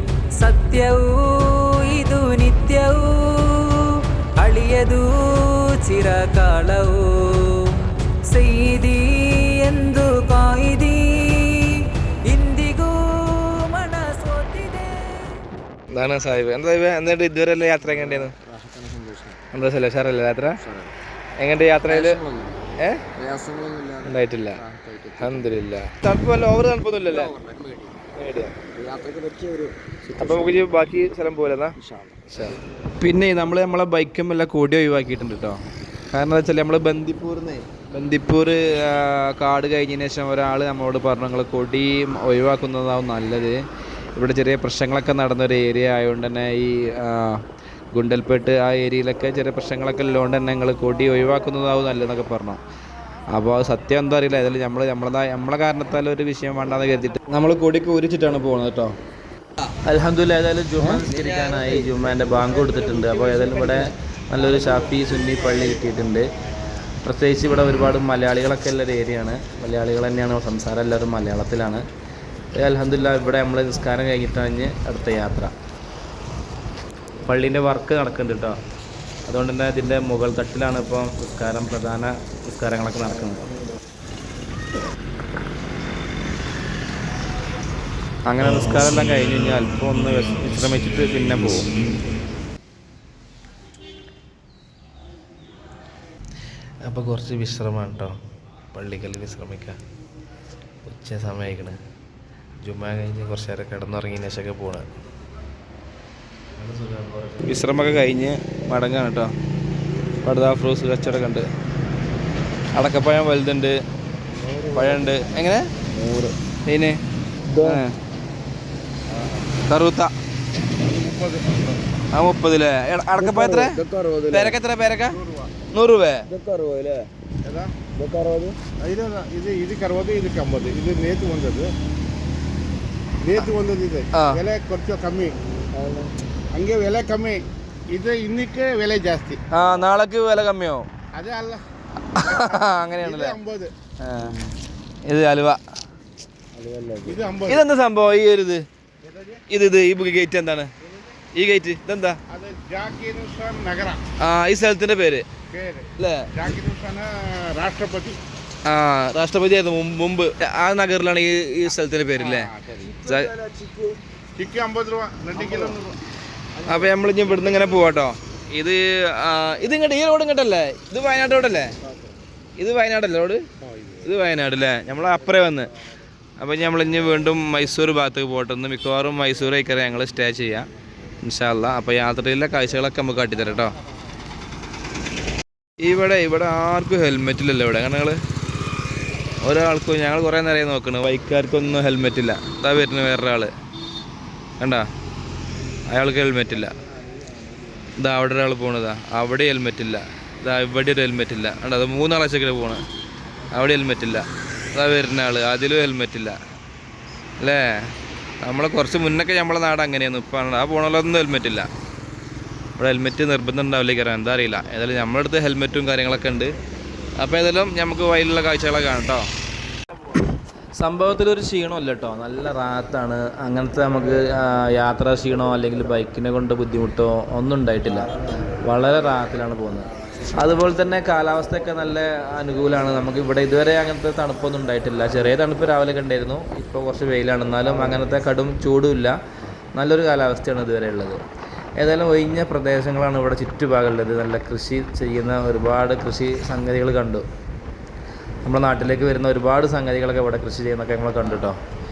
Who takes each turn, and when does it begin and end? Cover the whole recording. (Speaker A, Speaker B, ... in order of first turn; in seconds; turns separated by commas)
Speaker A: 0.4-15.4, Speaker B: 15.9-18.3, Speaker C: 17.9-19.4, Speaker B: 19.5-20.6, Speaker C: 20.6-20.9, Speaker B: 21.4-22.2, Speaker C: 21.9-25.6, Speaker B: 22.8-23.1, Speaker B: 24.0-24.6, Speaker B: 25.2-27.3, Speaker C: 27.1-28.0, Speaker B: 28.2-28.6, Speaker C: 28.7-30.6, Speaker B: 30.2-31.7, Speaker C: 31.8-32.2, Speaker B: 32.3-35.6, Speaker B: 36.1-43.6, Speaker B: 44.2-47.4, Speaker B: 48.0-52.6, Speaker B: 53.3-59.0, Speaker B: 59.9-66.3, Speaker C: 61.0-62.0, Speaker C: 62.5-63.7, Speaker B: 67.0-71.8, Speaker B: 72.5-75.5, Speaker B: 77.3-78.6, Speaker B: 79.3-83.5, Speaker B: 88.3-91.7, Speaker B: 96.8-98.1, Speaker B: 98.7-99.8, Speaker B: 100.8-101.8, Speaker B: 102.6-104.9, Speaker B: 106.6-109.3, Speaker B: 110.2-111.5, Speaker B: 112.8-113.8, Speaker C: 114.3-115.3, Speaker B: 114.7-115.7, Speaker C: 115.9-116.3, Speaker B: 116.7-117.0, Speaker C: 117.5-117.8, Speaker B: 117.6-118.0, Speaker B: 119.7-120.1, Speaker D: 120.8-121.8, Speaker B: 122.1-123.8, Speaker C: 123.2-124.6, Speaker B: 124.3-125.2, Speaker D: 125.1-125.5, Speaker B: 125.7-126.2, Speaker C: 126.3-127.1, Speaker D: 127.4-127.8, Speaker C: 128.0-128.6, Speaker D: 128.8-131.7, Speaker D: 133.2-135.4, Speaker B: 134.1-134.4, Speaker C: 135.7-136.1, Speaker D: 136.5-139.4, Speaker B: 139.5-140.9, Speaker D: 141.2-141.6, Speaker B: 142.1-143.4, Speaker D: 142.2-143.7, Speaker B: 144.0-144.4, Speaker B: 145.1-145.6, Speaker C: 146.6-147.3, Speaker D: 147.1-147.6, Speaker B: 147.5-148.7, Speaker D: 149.0-149.4, Speaker B: 149.5-150.7, Speaker B: 151.3-152.2, Speaker D: 152.3-154.0, Speaker B: 154.2-155.3, Speaker D: 155.5-158.2, Speaker B: 156.0-156.3, Speaker B: 158.7-162.5, Speaker D: 162.2-162.9, Speaker C: 162.7-164.0, Speaker B: 163.1-163.3, Speaker D: 164.3-166.0, Speaker C: 165.3-165.8, Speaker C: 166.6-166.9, Speaker B: 166.7-171.8, Speaker B: 172.6-173.4, Speaker B: 174.0-175.7, Speaker B: 176.4-180.7, Speaker B: 181.2-183.8, Speaker B: 185.8-188.2, Speaker B: 189.4-193.5, Speaker B: 194.6-194.9, Speaker B: 195.9-196.8, Speaker B: 198.0-202.8, Speaker B: 203.5-206.4, Speaker B: 207.4-211.7, Speaker B: 212.8-216.6, Speaker B: 217.2-219.3, Speaker B: 220.8-239.2, Speaker B: 239.8-241.2, Speaker B: 241.8-247.2, Speaker B: 248.4-251.6